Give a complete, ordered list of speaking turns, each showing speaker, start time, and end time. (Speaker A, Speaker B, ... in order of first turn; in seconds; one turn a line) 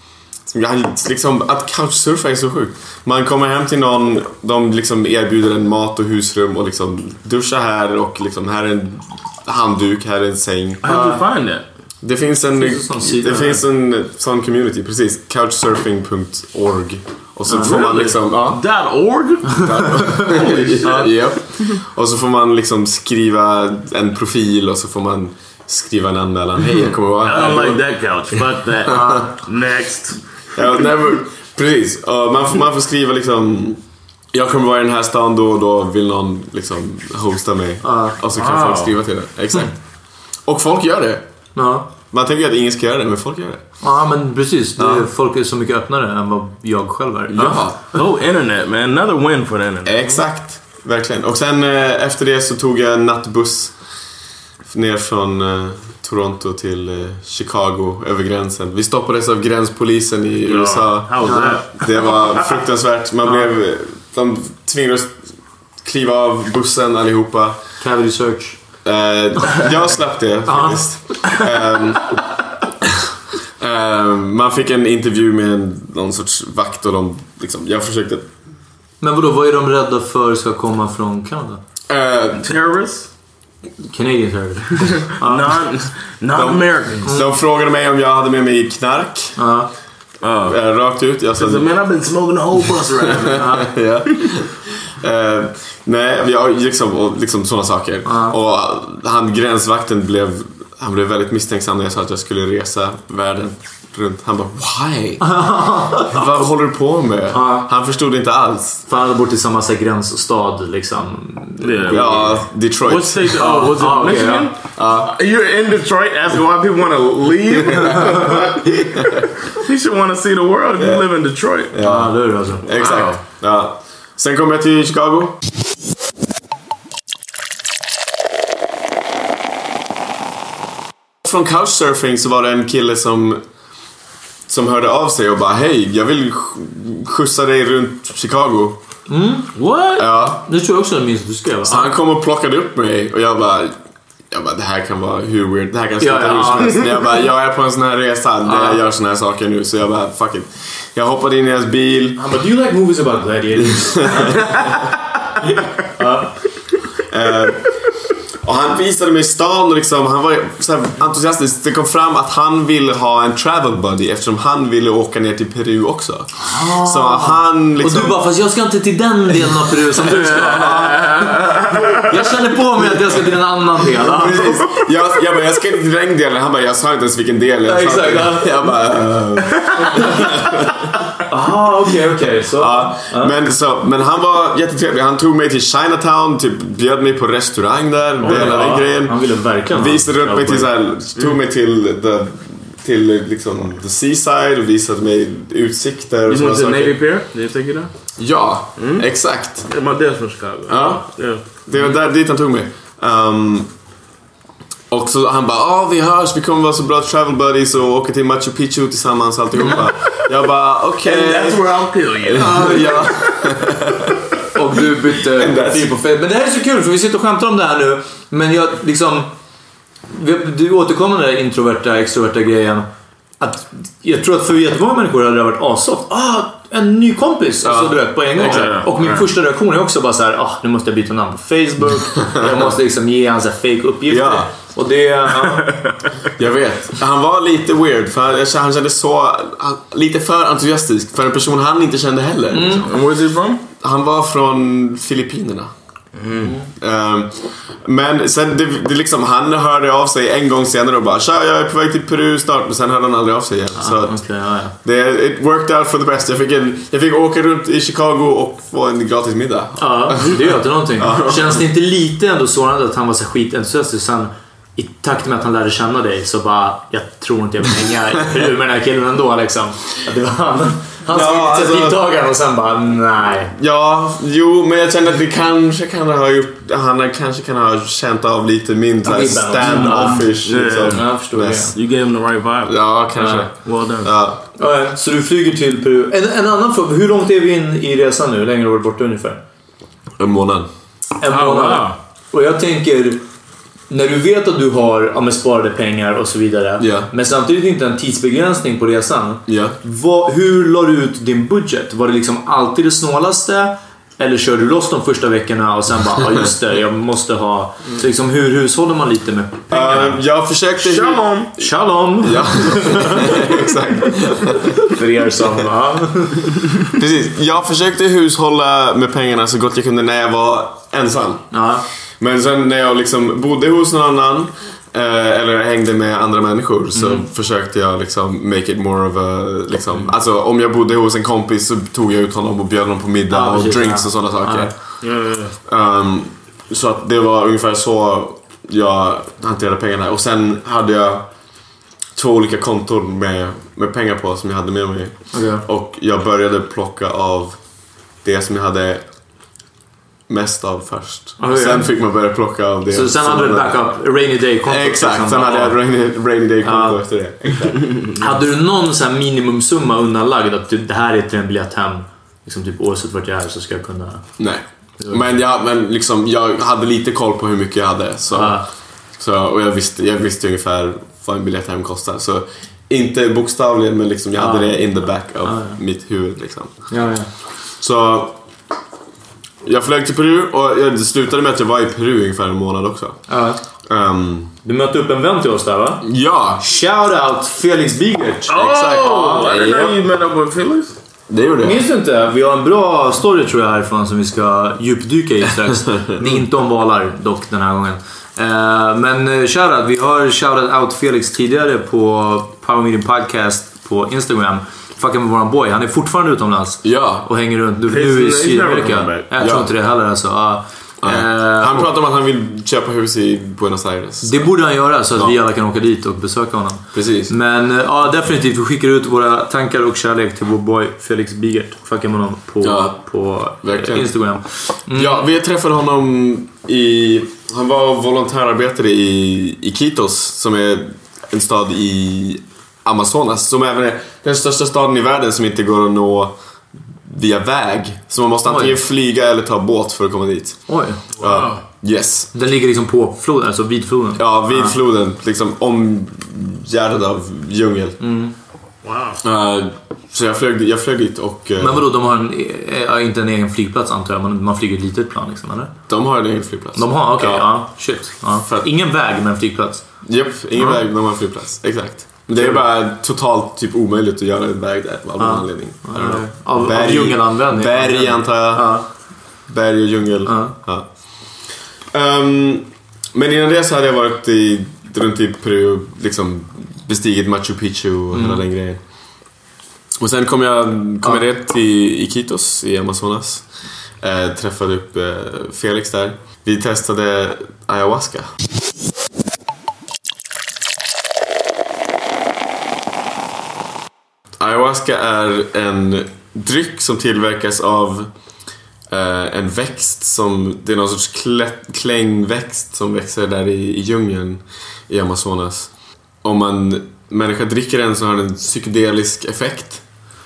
Speaker A: 0.5-10.9
Speaker B: 10.8-11.7
Speaker C: 10.8-11.2
Speaker A: 12.0-18.6
Speaker C: 12.5-13.6
Speaker C: 17.5-17.8
Speaker B: 17.6-21.1
Speaker A: 19.5-27.8
Speaker C: 20.8-21.1
Speaker B: 27.2-30.2
Speaker A: 28.9-29.3
Speaker A: 30.6-33.8
Speaker A: 34.3-39.7
Speaker C: 37.8-38.2
Speaker B: 38.3-38.9
Speaker A: 40.5-41.2
Speaker C: 41.5-41.9
Speaker A: 42.1-43.6
Speaker C: 43.8-47.6
Speaker A: 44.8-45.1
Speaker A: 47.3-47.8
Speaker B: 47.9-50.2
Speaker A: 49.8-53.7
Speaker A: 54.7-65.2
Speaker B: 60.4-62.2
Speaker C: 61.2-61.6
Speaker A: 65.8-67.6
Speaker C: 67.8-68.6
Speaker A: 68.8-72.2
Speaker C: 70.5-70.8
Speaker A: 73.6-78.2
Speaker C: 79.0-81.6
Speaker A: 81.9-82.5
Speaker B: 82.4-83.1
Speaker C: 83.8-85.5
Speaker B: 85.0-87.1
Speaker A: 86.3-89.4
Speaker C: 89.4-89.7
Speaker B: 90.2-90.6
Speaker A: 90.4-91.7
Speaker B: 91.3-93.5
Speaker A: 93.0-108.8
Speaker C: 93.3-93.7
Speaker C: 98.0-98.3
Speaker C: 105.2-106.2
Speaker C: 107.3-107.7
Speaker C: 108.9-112.4
Speaker B: 111.6-118.6
Speaker A: 111.9-113.4
Speaker C: 113.3-114.5
Speaker A: 114.7-115.1
Speaker A: 118.9-119.2
Speaker B: 119.6-121.7
Speaker A: 121.7-125.4
Speaker C: 121.8-122.6
Speaker B: 122.7-123.2
Speaker A: 131.2-133.4
Speaker A: 134.5-138.8
Speaker C: 139.1-139.5
Speaker B: 139.5-140.1
Speaker A: 140.0-140.4
Speaker C: 140.4-141.9
Speaker A: 141.7-143.8
Speaker A: 144.3-152.2
Speaker C: 146.0-146.9
Speaker C: 148.4-148.8
Speaker C: 152.2-154.4
Speaker A: 153.7-154.4
Speaker C: 155.9-156.3
Speaker A: 157.1-157.7
Speaker A: 158.4-168.2
Speaker C: 166.4-174.5
Speaker A: 174.1-180.8
Speaker C: 177.7-178.5
Speaker C: 179.9-180.2
Speaker C: 181.3-183.3
Speaker A: 182.6-189.2
Speaker C: 188.2-190.7
Speaker A: 189.7-197.0
Speaker B: 196.3-197.9
Speaker A: 198.2-199.7
Speaker B: 198.8-199.1
Speaker B: 199.7-201.4
Speaker A: 200.7-203.7
Speaker A: 204.9-214.2
Speaker B: 211.0-213.1
Speaker C: 212.4-212.8
Speaker C: 214.5-219.3
Speaker A: 215.3-215.9
Speaker C: 220.1-222.9
Speaker C: 223.4-235.7
Speaker A: 227.6-228.7
Speaker B: 228.4-229.3
Speaker A: 234.1-234.5
Speaker A: 236.3-242.9
Speaker C: 242.5-242.8
Speaker B: 242.8-243.6
Speaker A: 243.8-245.7
Speaker B: 246.1-246.6
Speaker C: 246.4-246.7
Speaker A: 246.8-254.2
Speaker C: 253.8-254.8
Speaker A: 254.8-261.6
Speaker C: 259.8-273.5
Speaker A: 271.1-272.0
Speaker A: 273.6-281.7
Speaker C: 279.0-280.3
Speaker B: 279.7-281.2
Speaker C: 280.9-281.7
Speaker B: 281.7-282.8
Speaker A: 282.6-284.4
Speaker C: 283.2-283.4
Speaker B: 283.6-284.1
Speaker C: 284.6-289.4
Speaker A: 290.2-290.7
Speaker C: 291.2-293.2
Speaker B: 291.3-292.0
Speaker C: 293.9-310.2
Speaker A: 296.8-297.1
Speaker A: 299.5-299.8
Speaker A: 309.7-311.4
Speaker B: 310.8-311.5
Speaker C: 311.6-313.3
Speaker A: 312.2-314.8
Speaker C: 314.8-316.5
Speaker A: 316.9-321.6
Speaker C: 321.5-321.8
Speaker A: 322.2-335.0
Speaker C: 326.9-327.2
Speaker C: 333.3-334.7
Speaker B: 335.0-335.5
Speaker A: 335.6-341.3
Speaker A: 342.1-347.6
Speaker C: 345.3-345.6
Speaker A: 348.2-349.0
Speaker A: 350.3-353.9
Speaker C: 351.4-351.9
Speaker C: 352.9-355.8
Speaker A: 354.6-357.9
Speaker C: 356.6-357.0
Speaker B: 357.9-358.2
Speaker C: 358.2-364.2
Speaker A: 364.4-368.6
Speaker C: 368.3-368.6
Speaker A: 369.2-376.7
Speaker C: 374.4-374.8
Speaker C: 375.4-375.8
Speaker C: 376.9-377.3
Speaker A: 377.8-378.4
Speaker A: 379.6-383.2
Speaker C: 383.3-383.6
Speaker A: 383.9-384.5
Speaker C: 384.6-386.0
Speaker A: 386.0-386.6
Speaker C: 386.6-389.5
Speaker B: 388.5-390.9
Speaker A: 388.5-389.9
Speaker A: 391.3-391.8
Speaker C: 391.6-411.8
Speaker A: 406.8-407.3
Speaker B: 407.9-409.3
Speaker A: 409.4-409.7
Speaker A: 411.0-415.4
Speaker C: 414.2-425.2
Speaker A: 416.9-417.3
Speaker A: 422.6-423.0
Speaker A: 423.6-424.1
Speaker A: 424.9-436.3
Speaker A: 437.0-440.6
Speaker C: 438.4-438.8
Speaker C: 440.7-441.0
Speaker B: 441.2-441.6
Speaker A: 441.2-442.3
Speaker C: 442.3-444.7
Speaker A: 444.1-448.0
Speaker C: 448.0-448.3
Speaker B: 448.8-449.2
Speaker A: 449.2-451.9
Speaker C: 451.6-455.7
Speaker A: 455.9-457.5
Speaker C: 456.8-459.8
Speaker A: 458.4-458.7
Speaker A: 460.1-468.8
Speaker C: 462.3-462.6
Speaker C: 465.2-468.9
Speaker A: 469.5-470.9
Speaker C: 470.2-470.5
Speaker A: 471.9-478.8
Speaker C: 478.1-478.4
Speaker A: 480.0-483.4
Speaker A: 484.0-488.3
Speaker A: 494.4-498.1
Speaker A: 498.9-505.7
Speaker A: 506.2-509.8